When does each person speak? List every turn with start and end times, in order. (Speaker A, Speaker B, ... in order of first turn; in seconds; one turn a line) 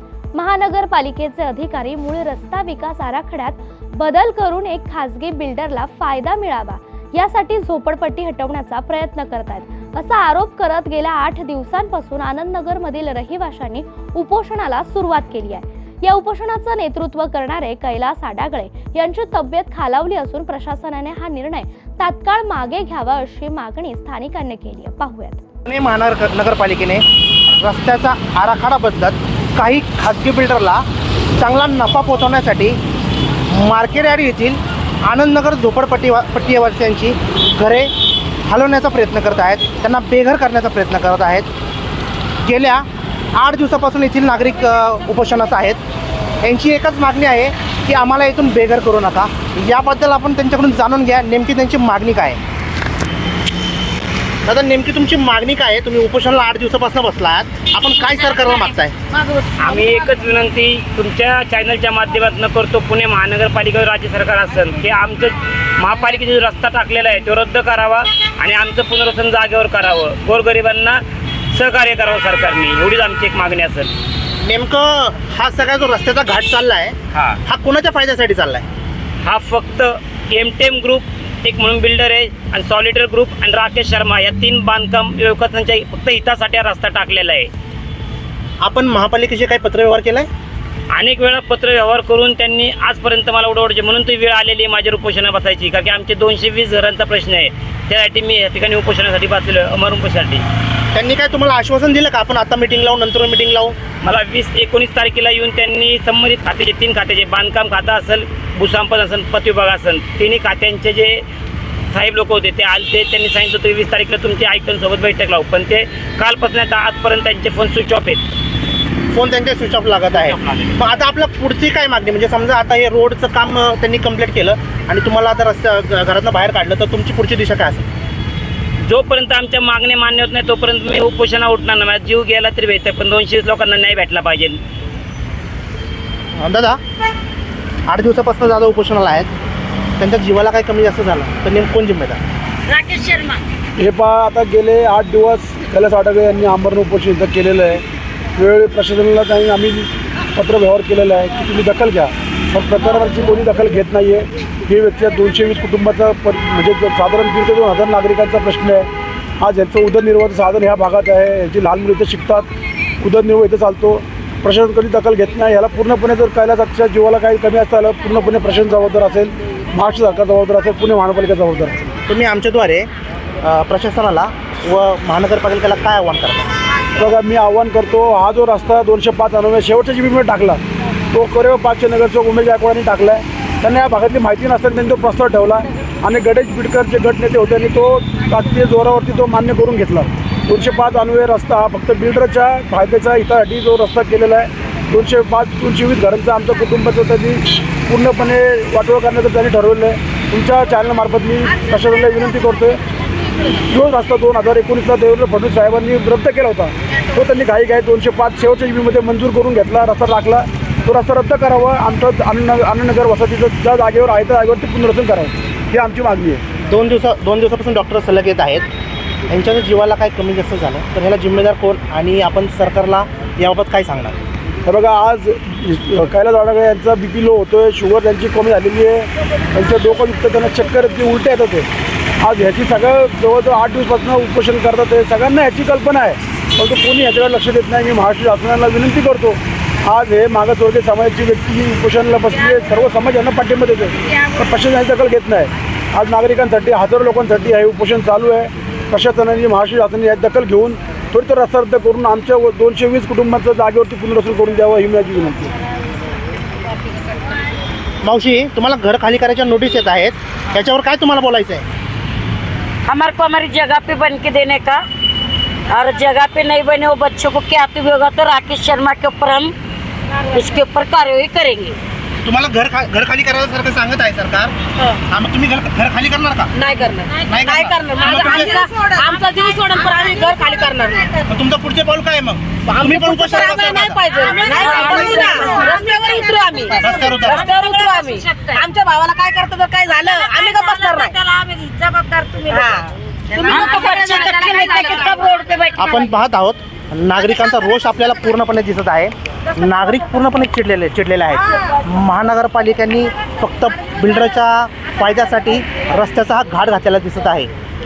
Speaker A: 0.3-25.4
Speaker B: 25.7-30.8
Speaker B: 31.4-32.8
Speaker B: 33.5-37.9
Speaker B: 38.5-41.5
Speaker B: 42.4-45.8
Speaker B: 46.4-52.4
Speaker B: 54.5-58.9
Speaker C: 59.6-71.0
Speaker C: 71.5-73.9
Speaker B: 74.4-78.7
Speaker C: 77.1-77.4
Speaker C: 79.2-87.5
Speaker B: 88.6-90.3
Speaker C: 90.9-100.4
Speaker B: 100.9-103.8
Speaker C: 104.0-111.2
Speaker C: 111.9-118.2
Speaker B: 119.1-127.8
Speaker C: 120.2-120.8
Speaker C: 128.8-134.6
Speaker B: 136.3-136.8
Speaker B: 137.9-139.3
Speaker B: 140.0-142.2
Speaker D: 142.7-143.4
Speaker E: 143.8-147.8
Speaker E: 148.4-158.9
Speaker E: 159.4-162.5
Speaker E: 163.0-171.9
Speaker B: 172.1-172.9
Speaker B: 173.4-176.5
Speaker E: 177.0-180.6
Speaker E: 181.1-202.8
Speaker E: 203.7-216.4
Speaker B: 216.6-218.7
Speaker B: 219.3-224.1
Speaker E: 224.7-231.7
Speaker E: 232.2-255.5
Speaker B: 258.0-261.6
Speaker D: 262.9-264.8
Speaker D: 265.7-269.5
Speaker D: 270.3-271.8
Speaker B: 272.2-274.5
Speaker B: 275.1-276.5
Speaker F: 276.5-281.3
Speaker B: 277.2-278.6
Speaker B: 281.3-284.0
Speaker F: 282.6-291.3
Speaker D: 284.6-286.4
Speaker B: 286.8-287.5
Speaker D: 287.5-288.6
Speaker D: 290.4-292.6
Speaker F: 292.4-294.9
Speaker D: 293.3-296.0
Speaker B: 295.8-307.5